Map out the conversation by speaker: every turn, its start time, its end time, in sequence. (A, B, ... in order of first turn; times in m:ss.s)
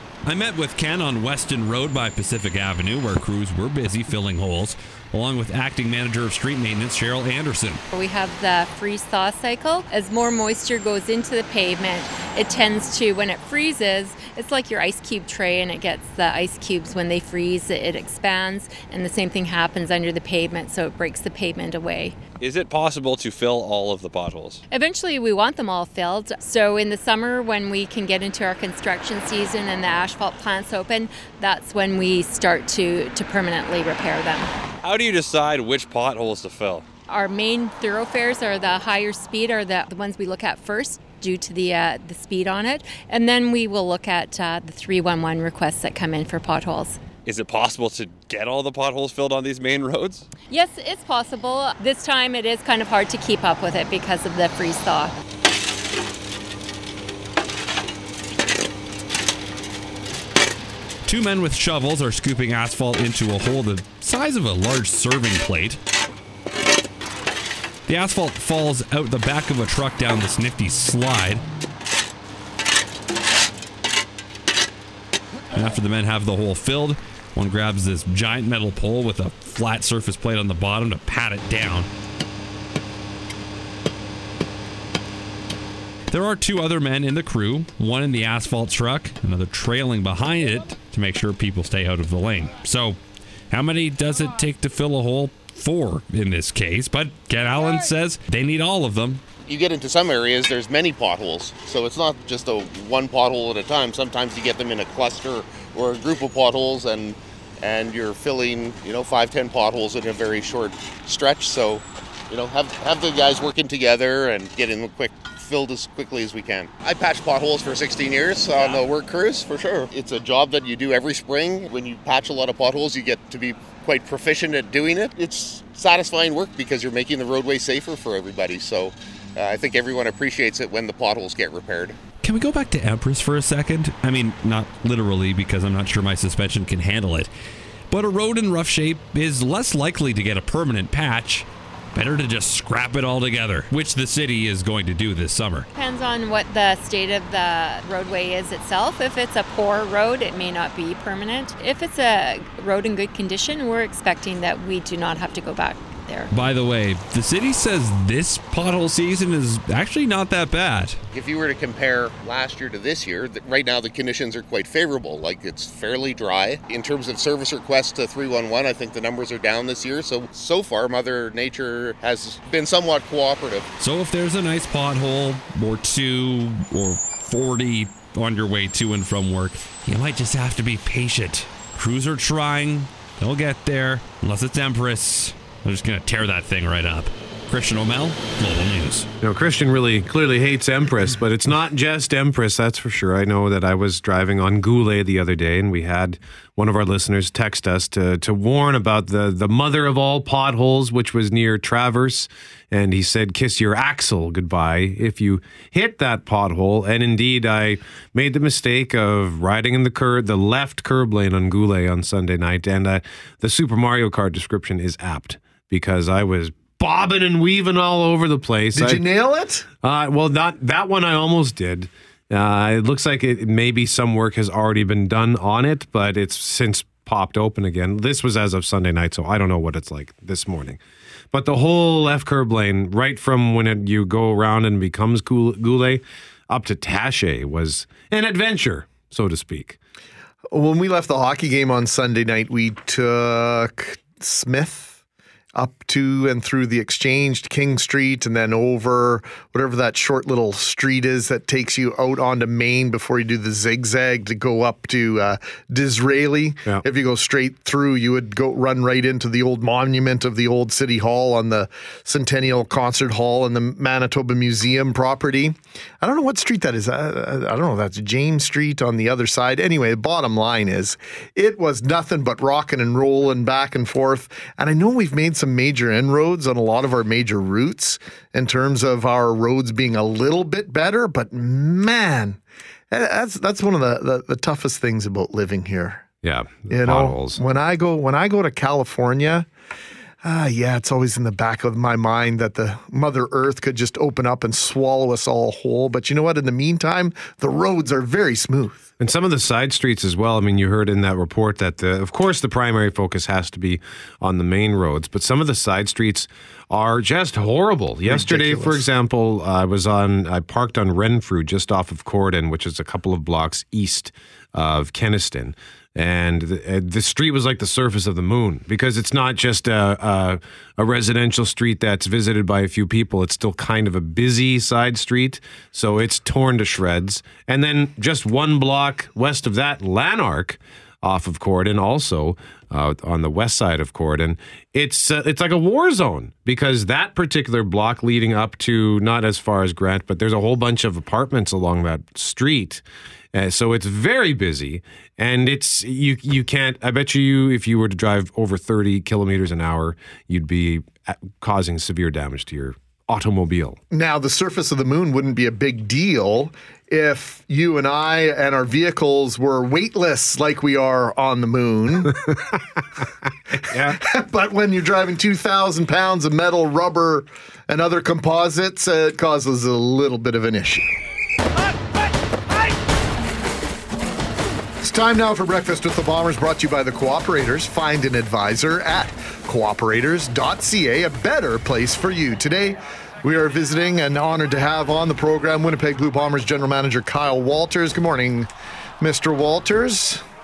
0:00.2-0:07.8 A
0:07.9-0:22.2 B
0:22.4-0:24.6 C
0:24.7-0:34.5 B
0:34.8-0:36.8 C
0:37.1-0:47.0 B
0:47.2-0:50.3 C
0:50.5-0:55.1 B
1:01.1-1:05.8 A
1:07.9-1:11.4 A
1:15.5-1:21.9 A
1:26.1-1:33.0 A
1:33.5-1:39.2 A
1:39.4-2:12.0 D
2:12.2-2:17.3 A
2:17.9-2:25.7 A
2:25.8-2:36.3 B
2:36.3-2:41.0 A
2:41.1-2:53.7 D
2:53.8-3:09.1 A
3:09.2-3:39.0 E
3:38.8-3:39.7 F
3:39.8-3:50.8 E
3:51.3-3:59.8 E
4:00.5-4:05.0 F
4:05.6-4:42.4 F
4:42.9-4:46.0 F
4:46.2-4:47.4 E
4:46.7-4:49.5 F
4:50.2-4:58.9 F
4:59.0-5:42.8 E
5:08.1-5:08.8 F
5:43.3-5:53.8 E
5:53.9-6:02.2 F
6:03.7-6:04.0 E
6:03.9-6:10.9 F
6:14.8-6:28.5 F
6:29.0-6:30.2 F